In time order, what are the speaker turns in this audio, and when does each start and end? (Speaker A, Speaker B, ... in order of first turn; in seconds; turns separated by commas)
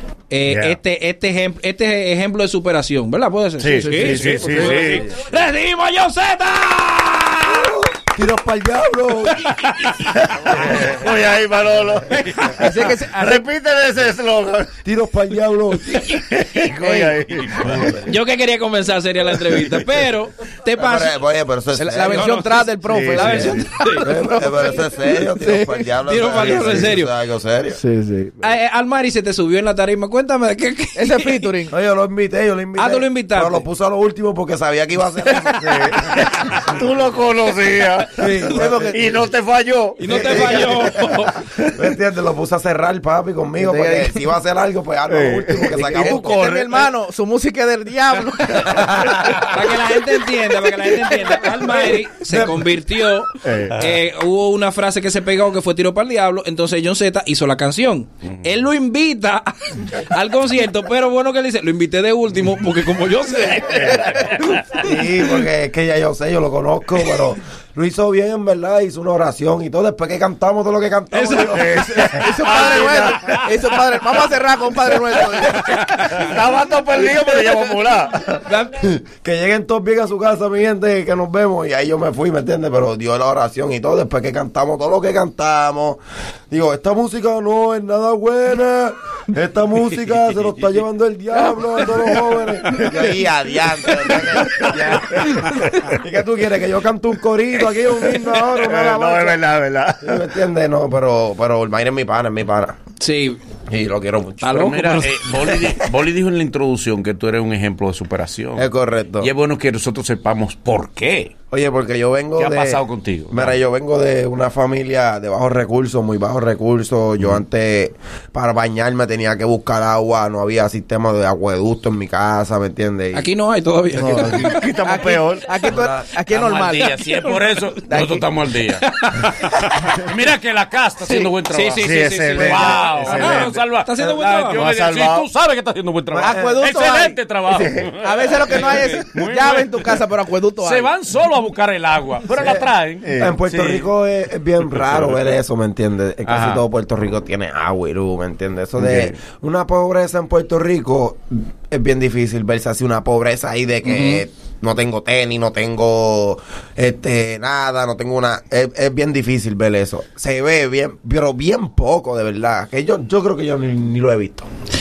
Speaker A: 0.3-7.7, Speaker B: 0.5-0.8, Speaker B: 3.6-5.0, Speaker C: 3.8-4.4, Speaker D: 4.0-5.0, Speaker E: 4.8-5.0, Speaker E: 7.5-9.5, Speaker A: 9.5-10.1, Speaker B: 10.3-14.7, Speaker A: 12.2-12.6, Speaker C: 12.6-13.5, Speaker E: 14.8-16.2, Speaker B: 16.2-17.9, Speaker C: 16.8-17.2, Speaker D: 17.4-17.9, Speaker A: 18.0-21.1, Speaker E: 20.8-22.3, Speaker C: 21.7-25.8, Speaker A: 22.0-24.1, Speaker B: 22.8-23.7, Speaker E: 24.0-27.8, Speaker A: 26.1-27.1, Speaker C: 27.7-28.5, Speaker A: 28.4-31.5, Speaker C: 30.9-31.7, Speaker E: 31.7-36.0, Speaker A: 32.8-33.6, Speaker B: 35.5-40.7, Speaker E: 38.1-39.0, Speaker C: 38.5-39.1, Speaker A: 40.0-41.4, Speaker E: 40.0-40.9, Speaker E: 41.6-46.7, Speaker C: 43.6-44.2, Speaker B: 45.1-45.8, Speaker C: 45.8-49.3, Speaker E: 48.6-49.4, Speaker A: 49.4-64.4, Speaker C: 51.4-52.0, Speaker E: 52.3-52.7, Speaker B: 53.4-53.8, Speaker C: 63.3-64.3, Speaker E: 64.8-72.1, Speaker A: 71.1-72.2, Speaker B: 71.5-73.3, Speaker C: 72.2-76.3, Speaker B: 76.2-78.3, Speaker A: 78.4-78.9, Speaker E: 78.8-99.4, Speaker B: 94.1-95.2, Speaker B: 98.5-100.2, Speaker E: 100.0-102.8, Speaker A: 103.0-103.4, Speaker E: 103.7-104.6, Speaker A: 104.4-105.1, Speaker D: 104.5-108.7, Speaker E: 108.5-109.3, Speaker D: 109.2-111.3, Speaker E: 111.5-123.2, Speaker D: 112.4-113.6, Speaker A: 123.1-124.6, Speaker B: 123.9-125.6, Speaker C: 124.7-127.2, Speaker E: 125.6-126.0, Speaker D: 126.3-140.0, Speaker C: 127.8-128.3, Speaker A: 128.8-130.0, Speaker A: 131.5-134.7, Speaker B: 131.8-133.6, Speaker B: 134.6-135.3, Speaker C: 136.1-137.4, Speaker E: 136.2-136.6, Speaker B: 137.3-138.0, Speaker C: 137.9-140.9, Speaker D: 140.6-143.9, Speaker E: 142.3-142.7, Speaker B: 143.0-143.4, Speaker E: 143.2-164.5, Speaker D: 144.6-145.2, Speaker D: 146.2-146.6, Speaker D: 148.8-149.2, Speaker A: 153.8-154.2